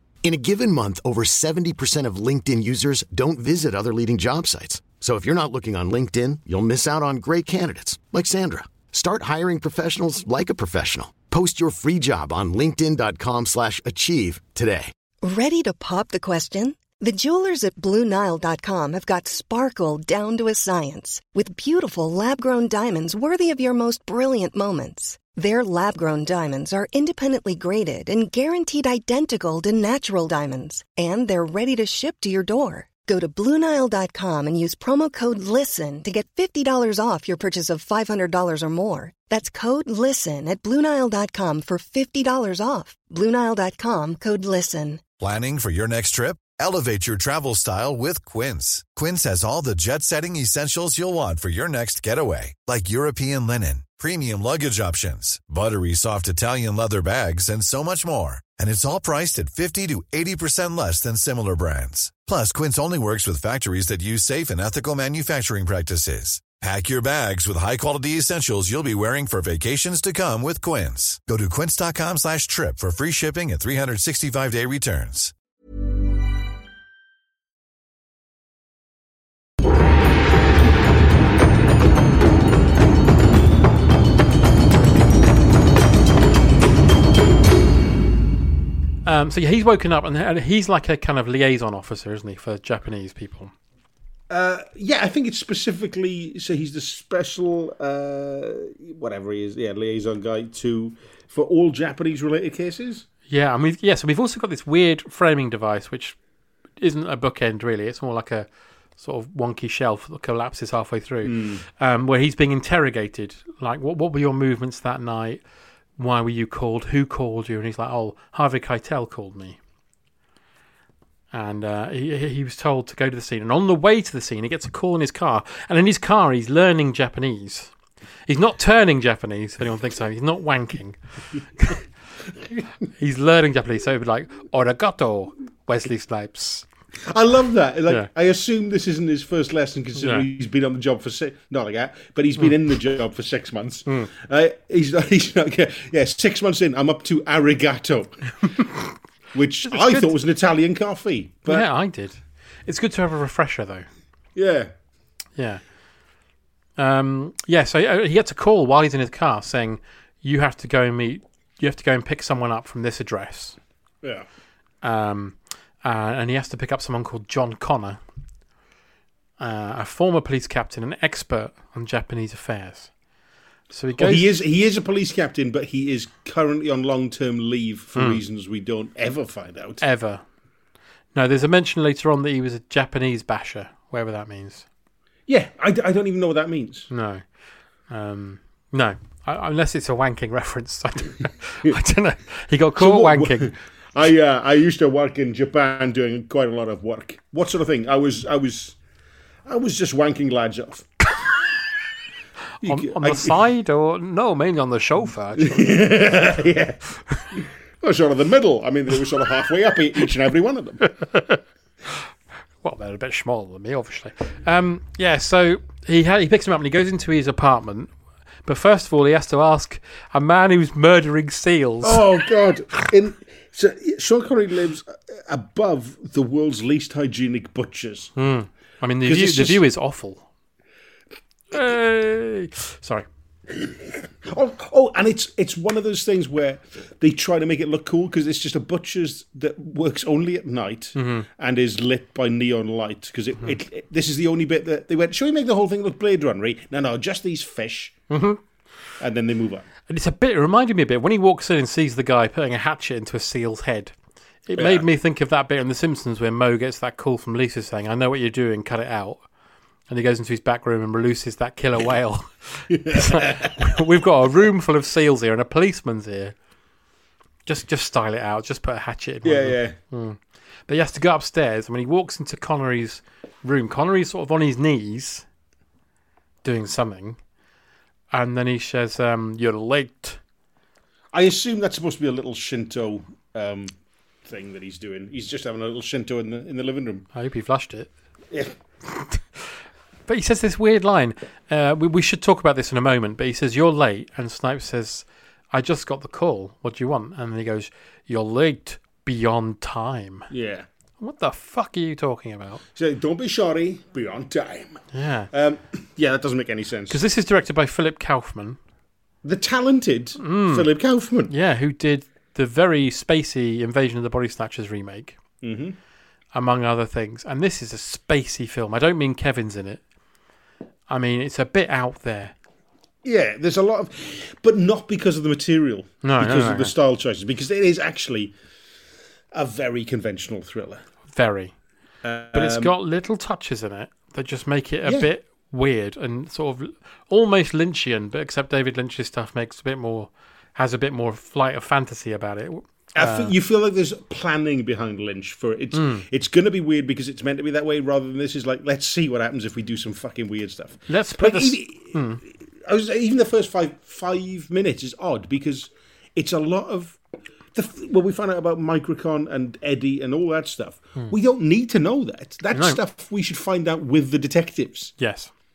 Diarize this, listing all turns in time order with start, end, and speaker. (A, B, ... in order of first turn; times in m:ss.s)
0:00.2-0:14.9 A
0:15.2-0:45.0 B
0:45.2-1:15.3 C
1:29.0-1:33.5 D
1:34.3-1:43.0 E
1:43.3-1:46.2 D
1:46.8-1:55.4 D
1:51.2-1:51.6 E
1:56.0-1:59.6 D
2:01.3-2:07.7 D
2:08.3-2:11.0 D
2:11.6-2:11.8 D
2:13.0-2:16.6 D
2:17.1-2:28.4 E
2:20.0-2:20.2 D
2:29.3-2:31.7 E
2:29.6-2:30.1 D
2:31.5-2:33.8 D
2:34.4-2:34.7 E
2:35.4-2:35.6 D
2:36.8-2:43.6 D
2:44.8-2:48.0 D
2:49.4-2:52.9 D
2:53.7-2:54.4 D
2:54.0-2:59.8 E
2:58.0-2:58.2 D
2:59.8-3:00.2 D
3:01.1-3:04.6 D
3:05.3-3:06.9 E
3:06.9-3:07.2 D
3:07.9-3:13.5 D
3:12.8-3:18.8 E
3:19.4-3:21.0 E
3:22.6-3:23.4 E
3:22.6-3:26.1 D
3:25.4-3:26.8 E
3:27.3-3:31.0 E
3:32.6-3:37.9 D
3:38.4-3:42.0 D
3:41.8-3:48.1 E
3:48.2-3:50.3 D
3:49.0-3:49.6 E
3:51.5-3:53.0 D
3:54.2-4:08.0 E
4:00.9-4:01.3 D
4:08.1-4:08.4 D
4:09.0-4:09.6 E
4:09.9-4:13.9 D
4:14.4-4:19.2 D
4:14.6-4:14.8 E
4:19.9-4:26.3 D
4:22.7-4:23.6 E
4:27.4-4:35.2 D
4:29.2-4:29.8 E
4:36.4-4:37.2 D
4:38.1-4:40.2 D
4:41.1-4:43.7 E
4:44.2-4:47.1 E
4:47.1-4:47.9 D
4:48.9-4:49.4 D
4:50.1-5:00.3 D
5:00.3-5:00.6 E
5:01.0-5:02.6 D
5:02.7-5:07.0 E
5:04.9-5:05.3 D
5:06.9-5:08.6 D
5:09.2-5:11.3 E
5:10.2-5:10.7 D
5:11.3-5:15.2 D
5:15.4-5:15.8 E
5:16.3-5:19.8 D
5:20.9-5:22.3 D
5:23.0-5:28.3 E
5:26.0-5:26.7 D
5:29.3-5:30.8 E
5:31.1-5:31.5 D
5:32.0-5:32.7 E
5:32.3-5:43.3 D
5:43.0-5:52.0 E
5:45.7-5:46.0 D
5:50.9-5:52.2 D
5:52.6-5:57.0 E
5:57.5-6:05.0 E
6:02.5-6:02.8 D
6:05.0-6:05.3 D